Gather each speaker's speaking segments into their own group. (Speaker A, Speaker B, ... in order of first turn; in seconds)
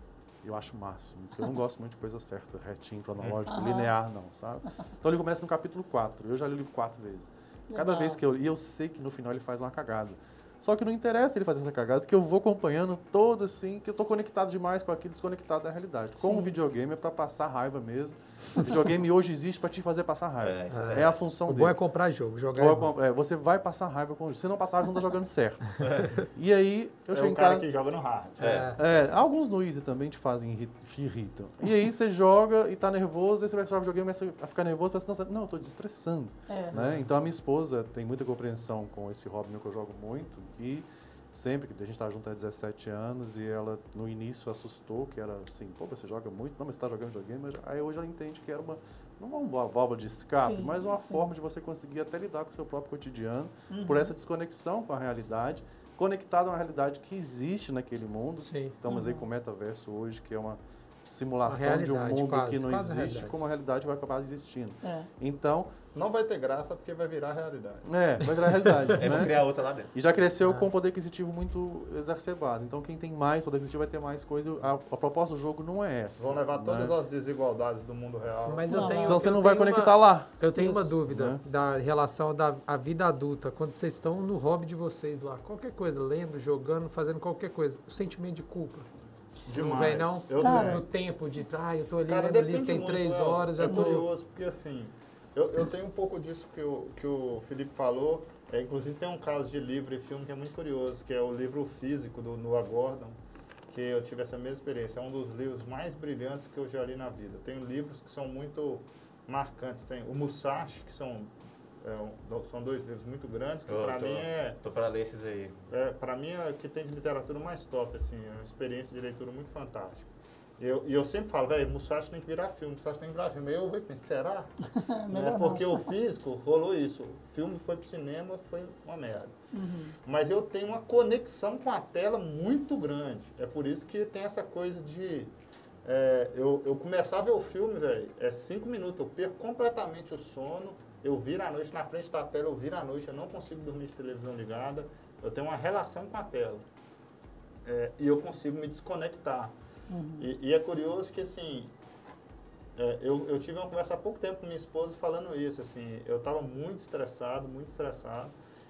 Speaker A: 0.4-21.8, 22.5-27.6, 28.8-65.7, 67.8-69.3, 69.9-76.9, 79.0-80.3, 81.0-81.4
Speaker B: 3.5-3.9, 7.7-8.2, 16.2-16.5, 36.5-36.8, 50.4-51.2, 53.7-54.1, 58.9-59.2, 64.8-65.1, 78.7-79.2, 80.5-80.9, 90.4-90.8, 124.8-125.8, 129.5-129.9, 149.9-150.3
Speaker C: 20.4-21.2, 25.8-26.1, 28.4-28.7, 69.0-69.9, 113.7-115.6
Speaker D: 20.7-22.9, 28.4-28.8, 58.5-58.7, 61.5-63.3, 68.8-69.1, 78.5-88.9, 89.5-94.1
Speaker E: 27.1-28.6, 65.9-67.9, 76.2-78.9, 89.5-90.8, 92.1-103.2, 103.7-114.6, 115.7-120.1, 120.6-124.5, 125.1-129.3, 130.0-135.3, 135.8-146.6, 147.6-149.5, 150.2-151.7, 152.8-158.3